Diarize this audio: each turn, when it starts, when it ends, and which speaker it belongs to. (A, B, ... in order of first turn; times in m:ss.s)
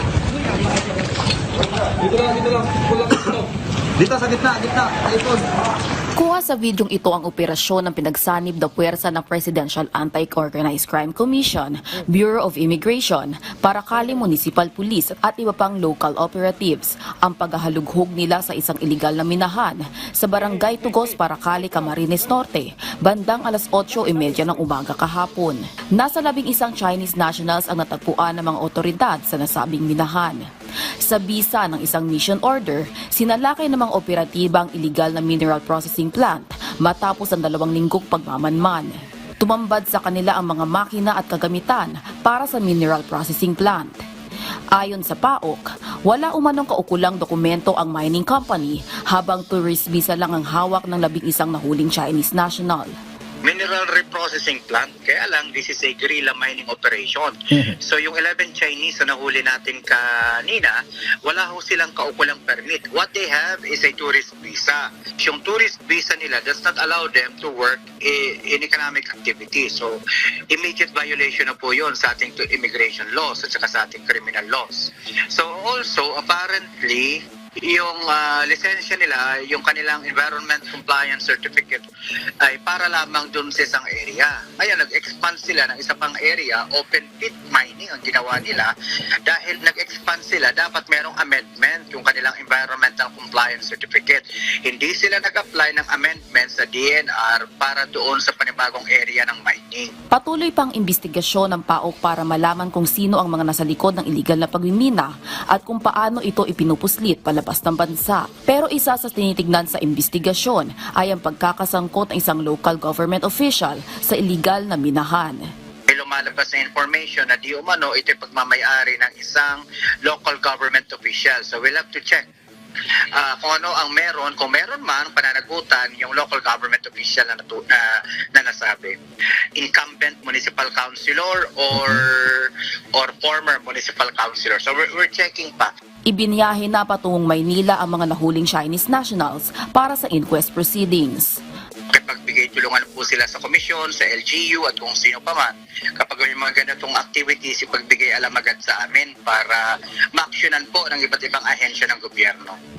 0:02.0-0:03.4 A
0:04.0-0:05.4 A
0:06.1-0:30.5 B
0:31.0-0:44.0 B
0:44.7-0:52.9 B
0:53.4-1:10.0 C
1:10.5-1:21.8 C
1:22.4-1:28.7 C
1:29.2-1:39.9 C
1:40.1-1:55.4 B
1:55.9-2:02.2 C
2:03.2-2:09.0 C
2:09.6-2:15.7 C
2:16.1-2:21.3 B
2:21.9-2:32.6 C